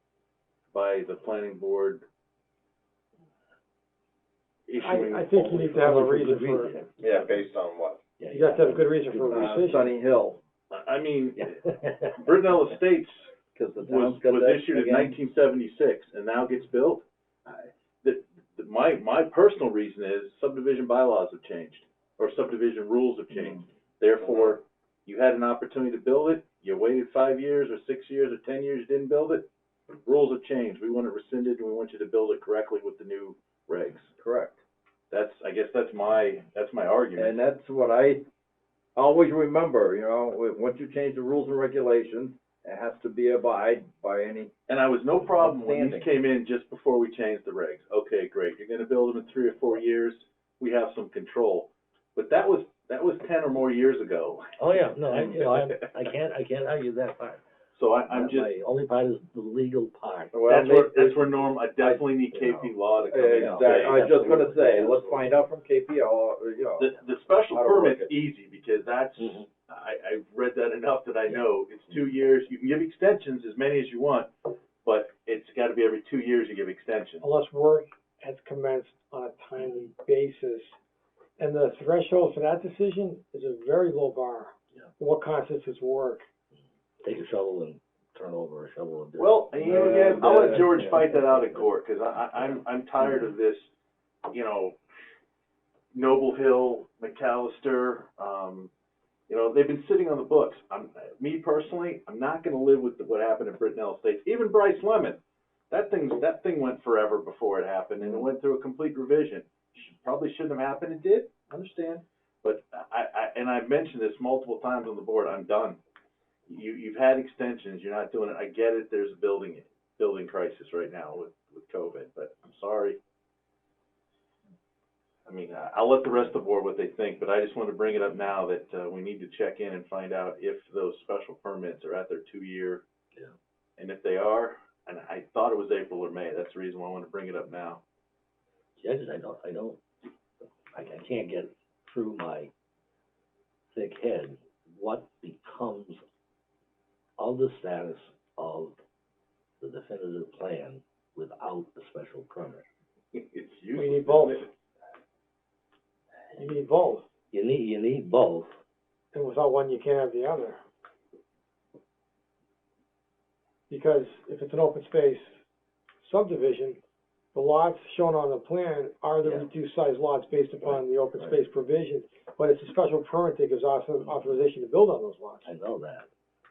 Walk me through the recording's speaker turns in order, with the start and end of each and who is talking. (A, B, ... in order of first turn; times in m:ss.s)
0:00.7-0:02.0 A
0:04.7-0:05.9 A
0:04.8-0:06.8 B
0:05.7-0:06.9 C
0:07.0-0:08.0 D
0:07.0-0:07.4 A
0:08.2-0:09.6 C
0:08.3-0:09.9 B
0:09.3-0:10.4 D
0:10.7-0:13.2 A
0:11.4-0:12.1 C
0:13.5-0:15.2 D
0:13.8-0:29.5 A
0:30.0-0:34.1 A
0:34.2-0:34.6 D
0:35.1-0:37.4 A
0:37.2-0:38.2 D
0:39.0-0:44.5 D
0:44.7-0:55.9 A
0:45.2-0:46.1 D
0:54.6-0:57.4 C
0:57.7-0:58.5 A
0:58.1-1:00.3 C
1:00.3-1:02.1 D
1:00.4-1:04.1 A
1:02.3-1:05.4 C
1:03.1-1:06.9 D
1:06.8-1:14.3 A
1:07.5-1:08.1 D
1:09.2-1:09.5 C
1:14.8-1:17.2 A
1:17.2-1:20.8 B
1:21.4-1:26.2 B
1:27.0-1:31.0 C
1:29.2-1:33.7 A
1:29.6-1:31.2 D
1:34.3-1:34.8 A
1:35.9-1:38.7 A
1:39.3-1:45.2 A
1:45.7-1:55.8 A
1:56.5-2:03.0 A
2:05.2-2:12.8 A
2:13.8-2:17.8 A
2:18.8-2:19.8 C
2:20.4-2:22.5 C
2:23.7-2:26.0 C
2:27.2-2:28.8 C
2:29.6-2:32.6 C
2:33.1-2:34.5 A
2:33.7-2:34.5 B
2:36.3-2:37.1 B
2:37.3-2:38.5 C
2:39.1-2:40.6 B
2:43.7-2:45.4 B
2:46.0-2:46.8 B
2:47.3-2:55.5 B
2:50.6-2:51.4 C
2:54.0-2:54.4 C
2:55.4-2:56.1 C